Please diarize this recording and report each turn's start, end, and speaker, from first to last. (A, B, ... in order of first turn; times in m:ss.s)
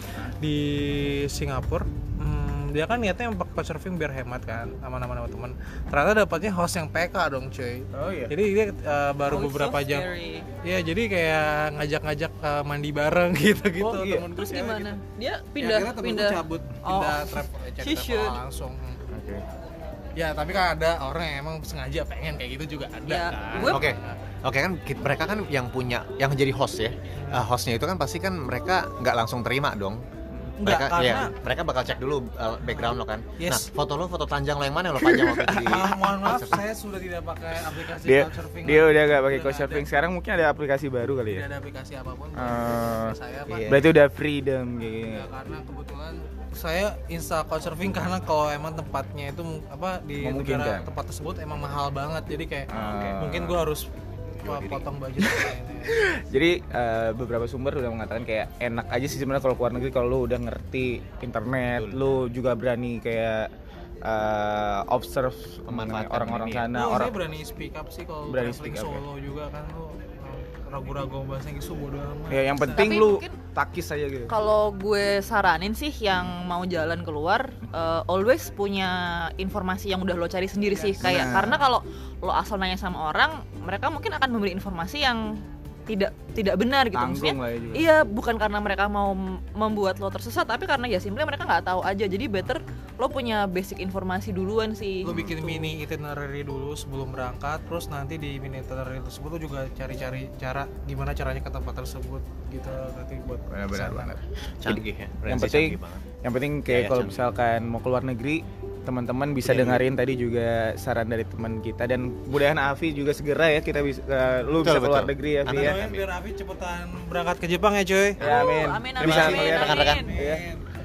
0:00.4-0:10.1 A
0:07.9-0:08.3 B
0:09.2-0:10.5 C
0:10.6-0:15.0 A
0:13.8-0:14.3 B
0:14.3-0:18.4 C
0:15.6-0:19.0 A
0:19.1-0:19.4 B
0:20.2-0:24.2 A
0:23.0-0:23.8 C
0:23.6-0:30.0 D
0:27.2-0:27.5 A
0:30.6-0:31.3 A
0:30.6-0:36.6 D
0:32.7-0:33.7 A
0:35.0-0:35.9 B
0:35.6-0:39.9 A
0:38.0-0:41.4 B
0:41.3-0:43.7 A
0:42.3-0:43.2 B
0:43.5-0:43.9 D
0:43.7-0:45.3 B
0:45.1-0:53.9 A
0:50.2-0:50.9 B
0:52.7-0:53.6 B
0:52.7-0:53.3 D
0:54.4-0:56.1 A
0:54.4-0:54.9 D
0:55.2-1:03.5 B
1:01.7-1:02.0 D
1:04.0-1:07.2 B
1:05.7-1:06.7 D
1:06.7-1:12.9 A
1:08.2-1:09.0 B
1:12.3-1:14.3 B
1:12.8-1:13.4 C
1:14.3-1:25.2 C
1:21.0-1:21.7 B
1:25.9-1:35.7 C
1:26.9-1:27.8 B
1:35.0-1:44.1 A
1:35.1-1:35.3 B
1:43.5-1:55.8 B
1:44.6-1:46.1 D
1:46.6-1:47.2 D
1:49.4-1:49.8 D
1:54.6-1:56.1 D
1:55.5-1:58.3 A
1:58.2-2:00.1 C
1:58.2-2:00.4 B
1:59.0-2:00.1 D
1:59.4-2:00.6 A